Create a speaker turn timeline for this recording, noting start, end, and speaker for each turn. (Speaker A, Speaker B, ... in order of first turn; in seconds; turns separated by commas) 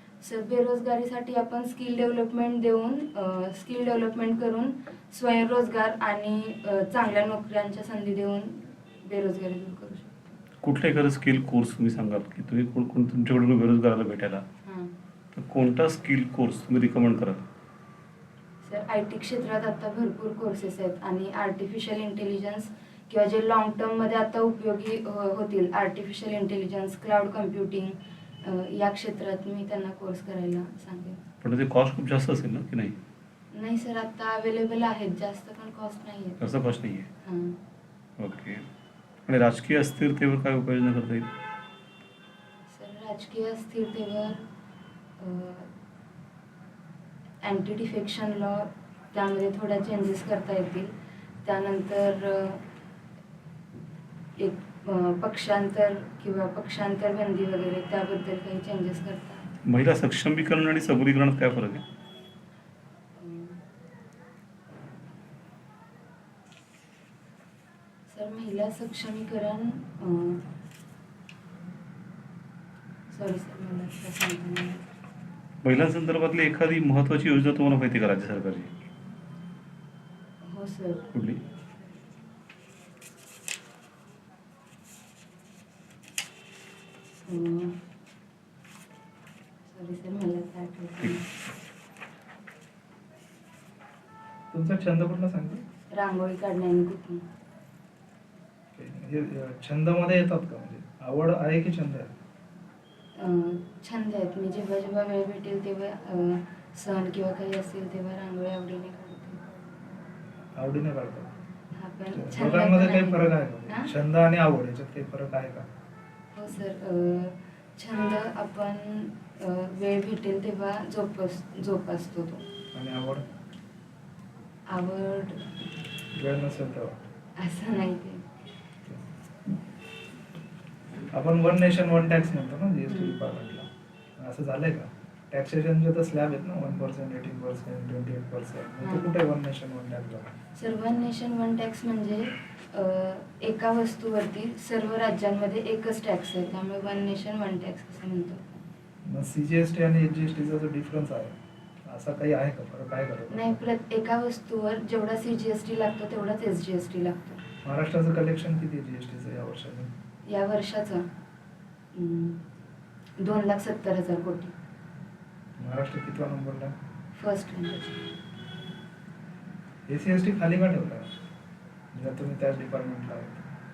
Speaker A: 0.2-10.4, Speaker B: 10.6-14.4, Speaker A: 14.7-14.9, Speaker B: 15.3-17.4, Speaker A: 18.6-31.2, Speaker B: 31.4-33.0, Speaker A: 33.5-36.4, Speaker B: 36.4-37.1, Speaker A: 37.2-37.6, Speaker B: 38.2-38.6, Speaker B: 39.3-41.3, Speaker A: 42.7-44.4, Speaker A: 45.2-45.7, Speaker A: 47.4-50.9, Speaker A: 51.5-52.6, Speaker A: 54.4-59.5, Speaker B: 59.6-61.8, Speaker A: 63.2-63.6, Speaker A: 68.1-70.4, Speaker A: 73.1-74.8, Speaker B: 75.6-78.7, Speaker A: 80.4-81.1, Speaker B: 81.1-81.4, Speaker A: 87.3-87.8, Speaker A: 89.7-91.3, Speaker C: 94.5-95.6, Speaker A: 95.9-97.3, Speaker C: 98.8-102.1, Speaker A: 103.2-109.6, Speaker C: 110.6-111.3, Speaker A: 111.7-113.9, Speaker C: 112.1-115.7, Speaker A: 116.3-122.4, Speaker C: 122.7-123.3, Speaker A: 124.7-125.4, Speaker C: 126.2-127.0, Speaker A: 127.4-128.2, Speaker C: 131.1-140.3, Speaker A: 132.9-133.2, Speaker A: 138.8-139.1, Speaker A: 140.6-148.6, Speaker C: 149.1-153.6, Speaker A: 153.3-157.4, Speaker C: 157.6-159.9, Speaker A: 160.3-161.1, Speaker A: 161.9-162.4, Speaker A: 163.2-164.5, Speaker C: 165.6-166.8, Speaker A: 167.2-168.1, Speaker C: 169.9-171.1, Speaker C: 171.9-173.4